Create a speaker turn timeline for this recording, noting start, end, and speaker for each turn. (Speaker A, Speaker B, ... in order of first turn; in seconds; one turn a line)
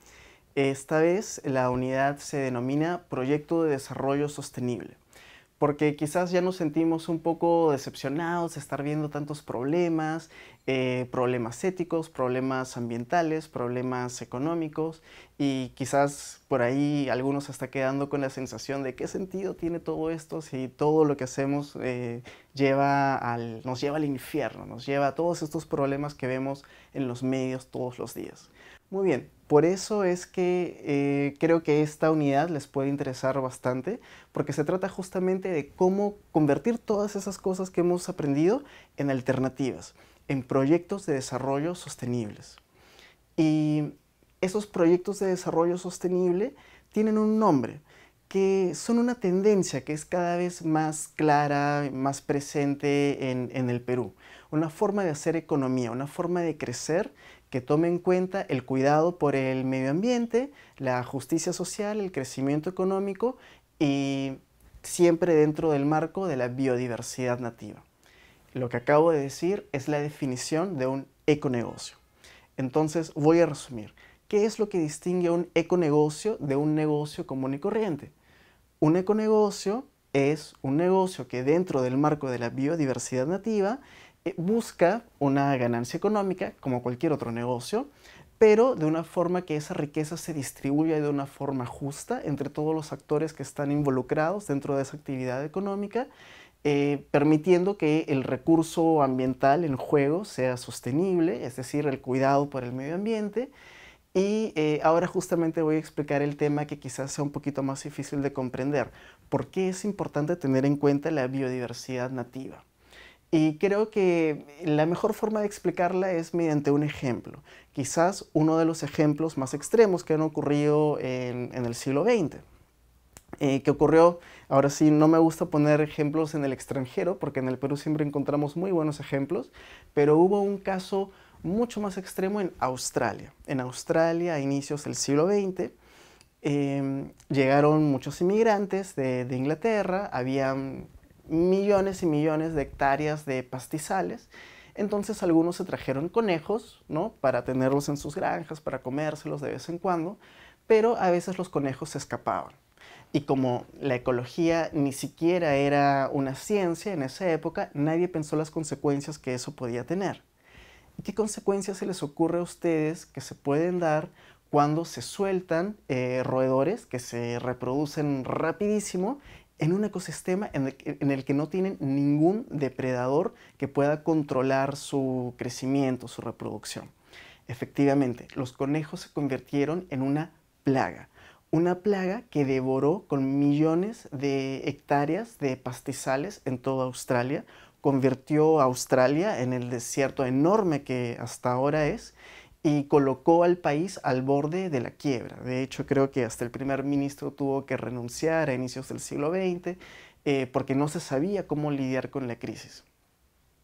Speaker A: 0.6-5.0
Speaker A: 5.6-42.6
Speaker A: 43.4-67.8
Speaker A: 68.5-72.0
Speaker A: 72.6-78.1
Speaker A: 78.8-96.1
Speaker A: 96.6-103.5
Speaker A: 104.1-112.7
Speaker A: 113.3-122.4
Speaker A: 123.4-135.7
Speaker A: 136.4-152.6
Speaker A: 153.1-160.2
Speaker A: 161.0-176.9
Speaker A: 177.5-202.8